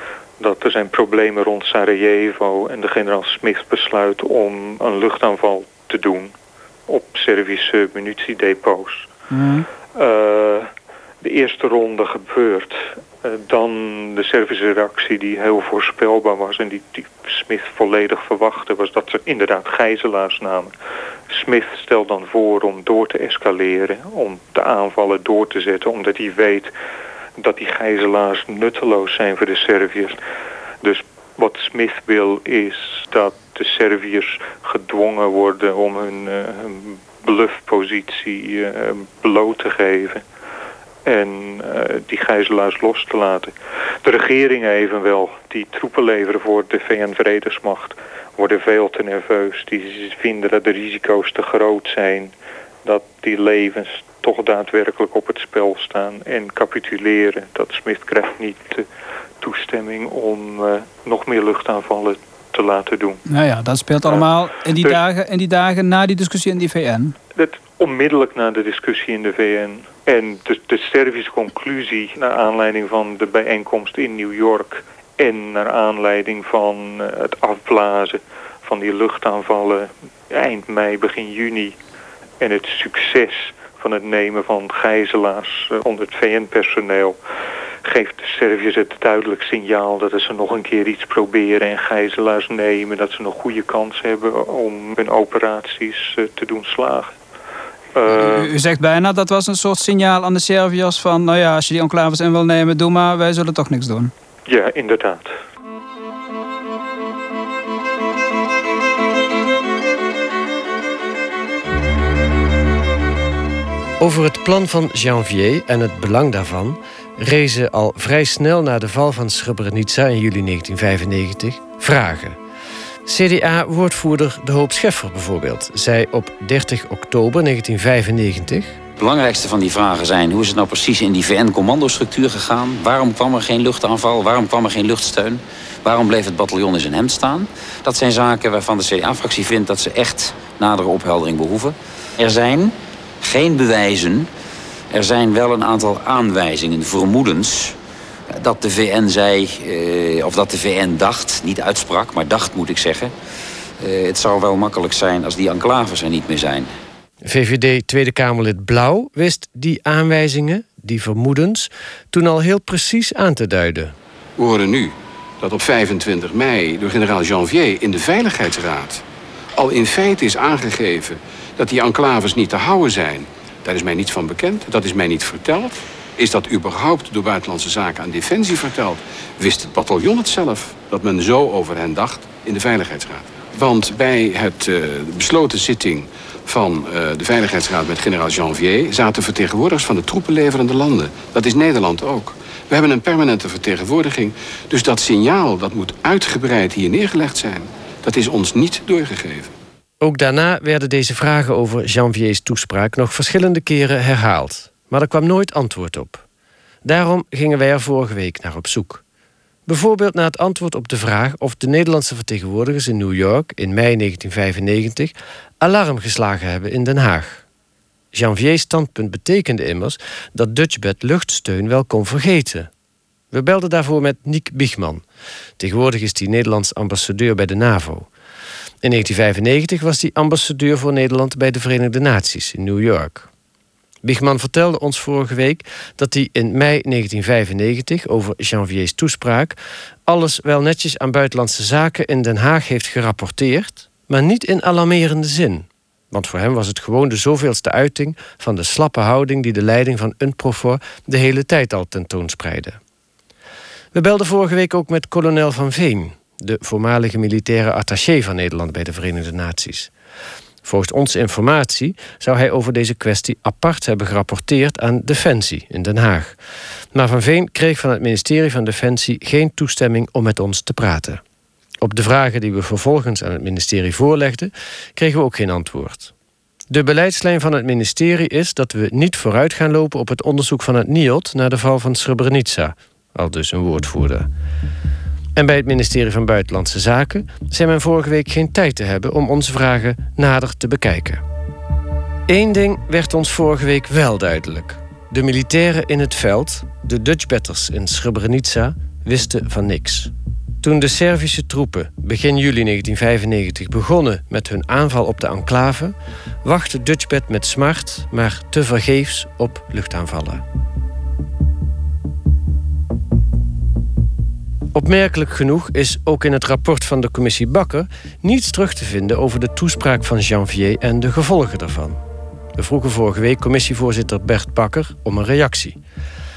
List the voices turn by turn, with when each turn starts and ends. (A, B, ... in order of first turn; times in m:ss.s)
0:00.4-0:06.3 A
0:06.9-0:09.1 A
0:09.3-0:09.6 B
0:09.9-0:10.7 A
0:11.2-0:20.7 A
0:21.3-0:26.7 A
0:27.4-0:30.2 A
0:30.8-0:40.2 A
0:41.0-0:43.5 A
0:44.0-0:58.9 A
0:59.4-1:03.2 A
1:03.3-1:07.1 B
1:04.1-1:05.0 A
1:07.3-1:21.8 A
1:22.4-1:27.2 A
1:27.8-1:37.1 A
1:37.9-1:38.5 A
1:38.1-1:44.1 B
1:44.5-1:45.3 A
1:54.0-2:02.4 C
2:03.0-2:08.8 C
2:09.0-2:24.3 D
2:24.9-2:27.7 D
2:28.3-2:33.1 D
2:33.8-2:36.7 D
2:37.2-2:43.9 C
2:44.4-2:49.0 E
2:49.6-3:19.5 E
3:20.0-3:26.2 C
3:26.8-3:29.0 C
3:29.6-3:37.4 C
3:38.1-3:42.7 C
3:43.3-3:45.0 C
3:45.6-3:48.1 C
3:48.8-3:53.3 C
3:54.0-4:12.8 C
4:13.9-4:19.9 C
4:20.6-4:26.4 C
4:26.9-4:31.2 C
4:31.8-4:36.1 C
4:36.7-4:44.3 C
4:45.4-4:51.2 C
4:52.3-5:10.4 C
5:14.7-5:22.0 C
5:22.6-5:25.8 C